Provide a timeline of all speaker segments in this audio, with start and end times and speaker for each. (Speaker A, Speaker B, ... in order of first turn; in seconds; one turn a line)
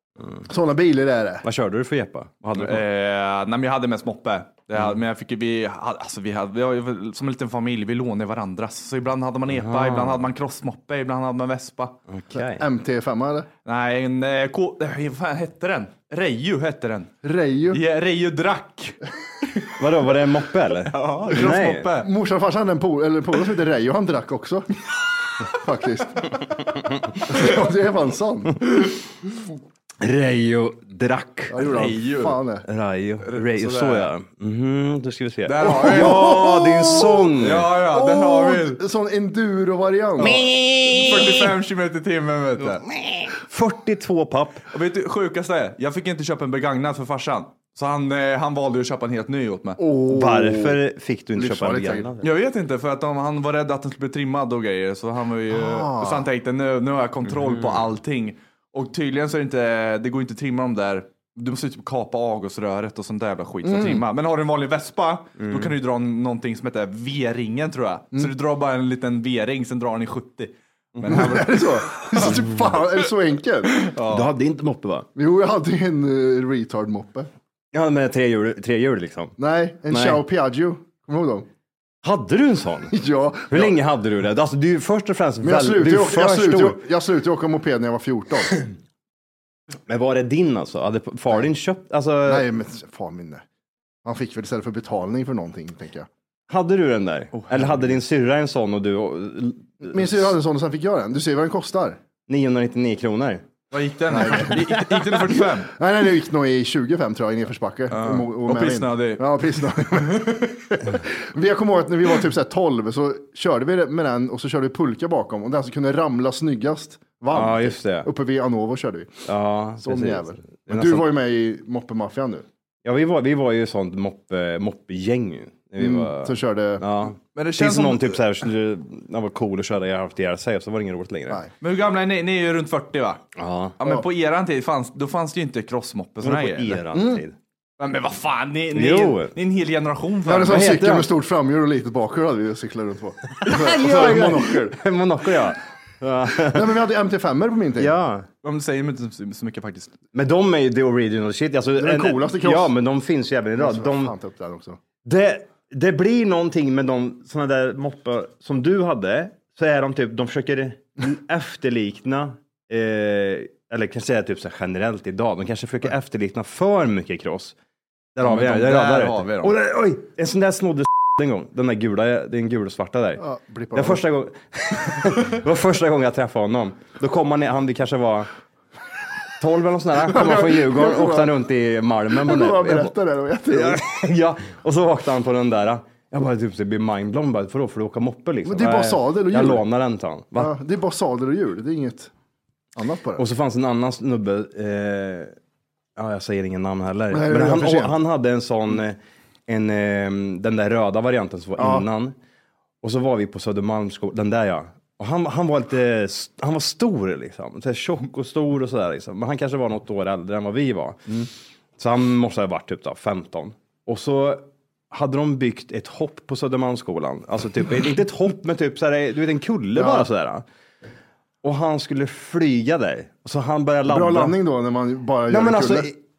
Speaker A: 0.5-1.4
Speaker B: 1.4-2.8
Speaker C: 2.5-11.9
Speaker B: 9.5-10.3
Speaker B: 12.1-12.6
Speaker A: 12.3-13.5
Speaker C: 13.6-17.1
Speaker A: 17.2-17.8
Speaker C: 17.7-19.0
Speaker B: 19.8-21.9
Speaker C: 20.9-22.1
Speaker A: 22.0-24.7
Speaker A: 25.4-28.8
Speaker B: 30.0-31.6
Speaker A: 31.5-32.6
Speaker C: 31.6-32.4
Speaker B: 32.6-37.7
Speaker C: 33.2-34.1
Speaker C: 35.5-36.4
Speaker A: 35.6-40.4
Speaker C: 37.4-38.8
Speaker B: 40.2-41.5
Speaker C: 40.9-42.9
Speaker B: 42.9-44.6
Speaker C: 44.7-49.8
Speaker A: 49.8-50.8
Speaker B: 50.1-52.3
Speaker A: 51.4-52.1
Speaker C: 52.2-72.3
Speaker A: 55.5-56.2
Speaker B: 57.4-57.8
Speaker A: 63.6-64.0
Speaker B: 65.4-65.7
Speaker B: 71.0-71.3
Speaker A: 71.1-73.8
Speaker C: 73.8-74.3
Speaker B: 74.1-75.1
Speaker A: 75.1-77.3
Speaker B: 77.7-79.3
Speaker A: 79.4-81.5
Speaker B: 79.9-80.2
Speaker B: 82.0-82.9
Speaker A: 82.9-83.8
Speaker B: 83.5-86.8
Speaker A: 85.4-88.7
Speaker B: 89.9-92.5
Speaker A: 92.2-93.4
Speaker A: 94.0-96.1
Speaker B: 96.5-100.3
Speaker C: 97.3-97.8
Speaker A: 99.8-102.0
Speaker B: 102.3-103.4
Speaker C: 103.7-105.7
Speaker A: 104.1-104.6
Speaker B: 104.3-105.2
Speaker A: 105.8-119.2
Speaker C: 107.9-109.2
Speaker B: 117.3-118.1
Speaker B: 119.2-121.1
Speaker A: 119.8-122.5
Speaker B: 122.8-131.4
Speaker A: 125.8-127.1
Speaker C: 127.3-128.2
Speaker C: 131.6-133.2
Speaker B: 133.4-133.8
Speaker C: 133.8-136.8
Speaker B: 136.2-137.4
Speaker A: 136.9-137.2
Speaker C: 137.8-140.8
Speaker B: 138.7-139.3
Speaker A: 140.2-144.8
Speaker B: 140.4-141.1
Speaker B: 143.4-146.8
Speaker A: 146.4-147.9
Speaker B: 147.8-148.3
Speaker C: 148.4-149.9
Speaker B: 150.1-154.1
Speaker A: 151.8-152.7
Speaker A: 153.6-154.8
Speaker B: 155.0-167.6
Speaker B: 168.1-178.3
Speaker C: 168.2-169.6
Speaker A: 173.2-174.0
Speaker B: 179.4-182.9
Speaker A: 180.0-181.3
Speaker A: 182.1-183.8
Speaker B: 183.5-190.5
Speaker A: 188.4-189.6
Speaker A: 190.4-192.1
Speaker A: 192.8-193.2
Speaker B: 193.2-195.4
Speaker B: 195.9-202.2
Speaker A: 197.1-197.9
Speaker A: 201.6-201.8
Speaker B: 202.8-211.2
Speaker B: 211.8-220.4
Speaker A: 219.8-220.1
Speaker B: 221.4-224.3
Speaker A: 223.9-225.9
Speaker B: 225.3-226.0